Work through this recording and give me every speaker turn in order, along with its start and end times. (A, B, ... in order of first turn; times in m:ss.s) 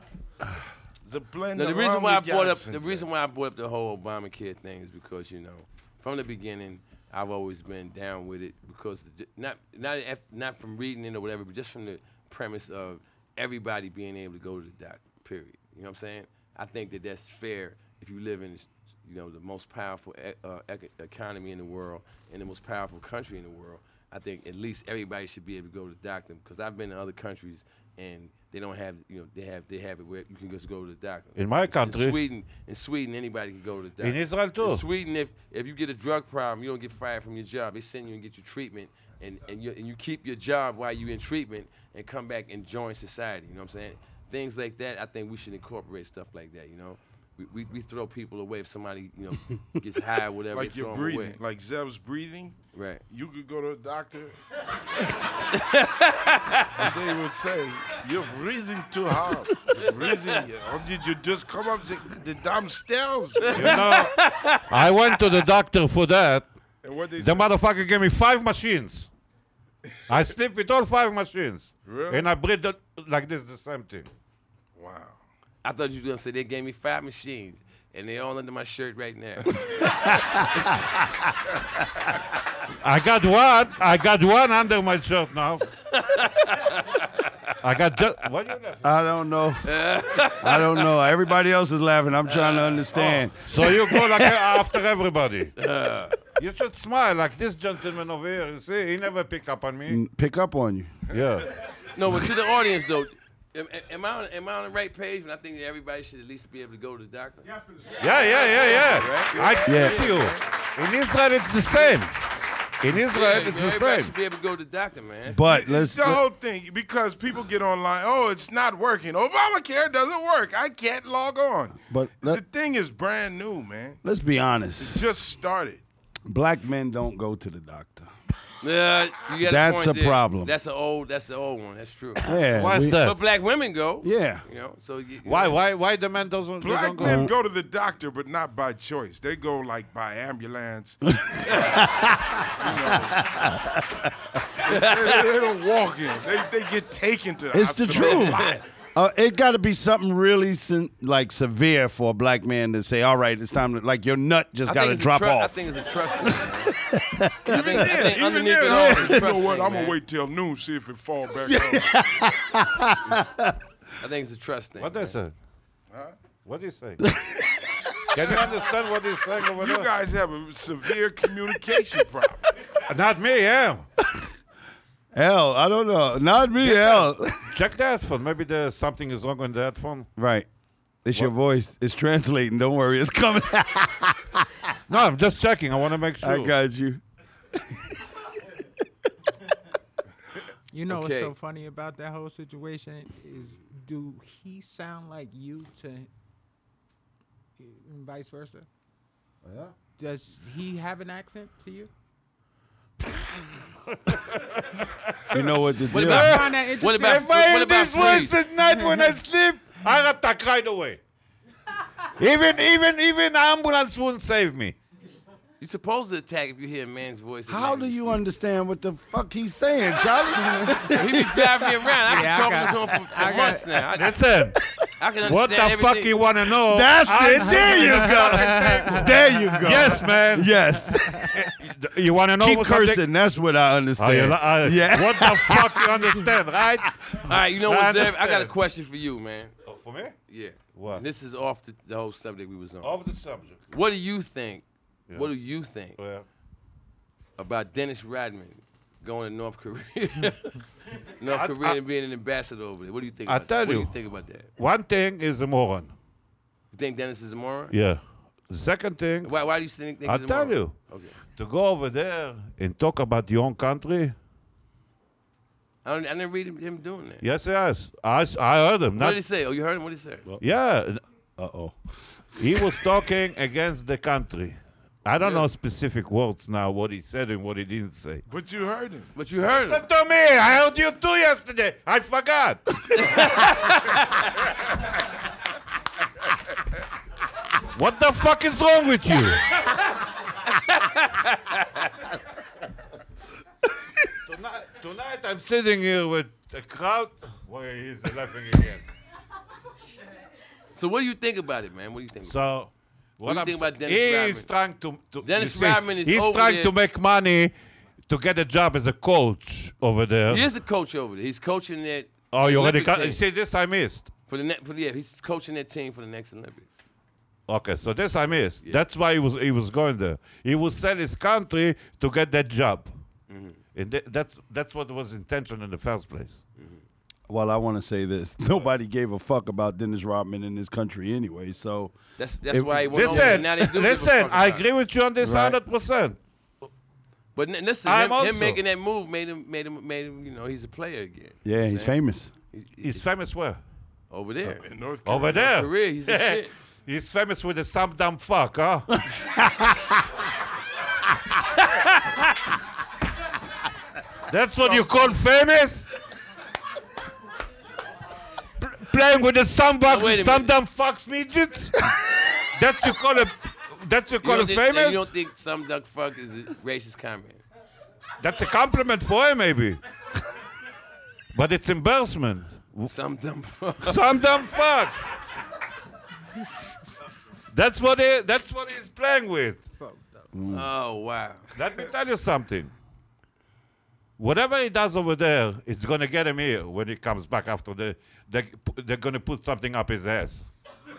0:01.0-0:03.0 A
0:01.5-0:51.4 B
0:31.4-0:32.2 C
0:34.0-0:34.8 C
0:50.5-0:52.6 A
0:52.7-0:53.0 B
0:53.1-0:54.4 A
0:55.4-0:56.8 B
0:56.7-1:03.9 A
0:59.7-1:00.3 B
1:03.4-1:05.3 B
1:03.5-1:06.5 C
1:06.8-1:07.5 A
1:07.2-1:09.1 C
1:10.1-1:14.1 C
1:11.8-1:12.3 A
1:14.7-1:15.2 A
1:15.6-1:19.9 B
1:22.8-1:25.7 C
1:25.9-1:27.5 B
1:27.6-1:28.9 C
1:28.8-1:29.7 D
1:29.6-1:31.0 B
1:30.2-1:34.1 D
1:32.2-1:32.9 B
1:32.9-1:35.5 C
1:33.9-1:34.2 B
1:35.6-1:36.2 B
1:36.4-1:40.0 C
1:39.9-1:41.0 D
1:41.1-1:41.5 C
1:41.9-1:47.5 B
1:48.0-1:52.2 C
1:48.4-1:50.4 B
1:49.4-1:49.8 A
1:49.6-1:50.1 D
1:52.8-1:54.1 C
1:53.1-1:55.4 B
1:55.3-1:56.2 D
1:55.4-2:04.0 A
2:01.9-2:02.4 D
2:04.0-2:05.1 D
2:04.8-2:05.8 A
2:06.2-2:08.1 D
2:08.6-2:15.6 B
2:09.4-2:10.5 D
2:12.2-2:13.0 D
2:12.5-2:13.2 C
2:14.0-2:14.4 D
2:15.2-2:17.2 C
2:16.6-2:21.8 A
2:17.0-2:17.3 D
2:21.1-2:24.1 D
2:21.5-2:21.8 B
2:22.6-2:23.3 A
2:24.6-2:28.6 A
2:24.6-2:25.3 B
2:27.5-2:35.7 D
2:27.9-2:28.6 B
2:34.6-2:36.8 B
2:36.2-2:38.1 D
2:37.4-2:40.0 B
2:37.5-2:42.0 A
2:38.7-2:39.1 D
2:41.3-2:43.6 D
2:44.0-2:45.2 B
2:44.8-2:45.3 C
2:45.9-2:46.2 A
2:46.4-2:47.0 C
2:47.0-2:48.1 D
2:48.1-2:49.9 C
2:49.4-2:52.5 A
2:52.8-2:53.8 C
2:55.1-2:57.6 D
2:56.6-3:00.1 C
3:00.2-3:00.5 D
3:01.0-3:04.6 D
3:04.9-3:06.5 C
3:06.2-3:07.0 D
3:07.5-3:07.9 D
3:10.7-3:16.1 E
3:10.9-3:11.3 B
3:17.6-3:18.7 E
3:19.4-3:19.7 C
3:20.0-3:21.9 E
3:23.0-3:31.0 C
3:25.3-3:26.4 D
3:25.9-3:28.4 B
3:26.0-3:27.3 E
3:28.7-3:29.1 E
3:32.2-3:34.8 C
3:35.6-3:38.2 B
3:37.5-3:41.9 D
3:40.8-3:44.2 B
3:42.0-3:43.8 E
3:43.9-3:44.6 C
3:45.0-3:46.2 B
3:45.2-3:50.6 C
3:46.5-3:51.5 D
3:47.4-3:49.8 E
3:50.9-3:51.3 E
3:51.3-3:53.0 C
3:52.4-3:56.2 D
3:54.0-3:58.5 C
3:57.2-3:59.5 B
3:59.6-4:00.2 C
4:00.3-4:03.0 B
4:00.7-4:01.0 C
4:02.8-4:03.6 C
4:03.7-4:06.0 B
4:06.0-4:06.2 C
4:07.4-4:14.5 B
4:11.3-4:11.8 C
4:13.2-4:13.9 C
4:14.6-4:15.9 C
4:16.7-4:17.7 B
4:17.7-4:19.3 C
4:19.2-4:21.2 B
4:20.0-4:24.1 C
4:25.8-4:27.2 B
4:27.2-4:29.2 C
4:29.0-4:30.2 B
4:30.4-4:31.0 C
4:31.4-4:31.8 D
4:32.4-4:38.2 C
4:32.4-4:32.8 D
4:38.3-4:39.1 A
4:39.1-4:39.8 B
4:39.5-4:43.5 C
4:42.9-4:44.3 B
4:47.7-4:49.5 C
4:49.6-4:49.9 B
4:50.4-4:52.0 B
4:54.2-4:58.8 C
5:00.7-5:02.4 B
5:02.2-5:07.5 C
5:03.2-5:04.5 B
5:05.2-5:06.7 B
5:08.0-5:10.5 C
5:10.3-5:13.2 B
5:12.3-5:14.1 C
5:14.3-5:16.8 B
5:17.5-5:22.9 C
5:23.3-5:23.6 B
5:23.7-5:26.4 C
5:26.6-5:26.8 B
5:27.3-5:31.9 D
5:32.2-5:34.6 B
5:32.5-5:33.6 D
5:32.9-5:36.2 C
5:35.2-5:35.6 D
5:37.3-5:42.0 B
5:37.8-5:38.6 C
5:41.4-5:42.3 D
5:42.5-5:43.0 B
5:42.8-5:43.6 C
5:44.1-5:44.7 B
5:44.6-5:45.6 A
5:45.0-5:49.0 C
5:45.3-5:46.5 B
5:49.4-5:49.8 D
5:54.3-5:55.9 C
5:58.6-6:05.1 C
5:59.8-6:00.5 B
6:04.2-6:07.4 B
6:08.2-6:09.8 C
6:11.3-6:12.9 C
6:12.8-6:14.0 B
6:13.8-6:15.0 C
6:17.5-6:19.6 C
6:19.7-6:20.3 E
6:20.3-6:20.7 D
6:20.5-6:21.5 B
6:21.5-6:22.7 C
6:24.2-6:30.5 C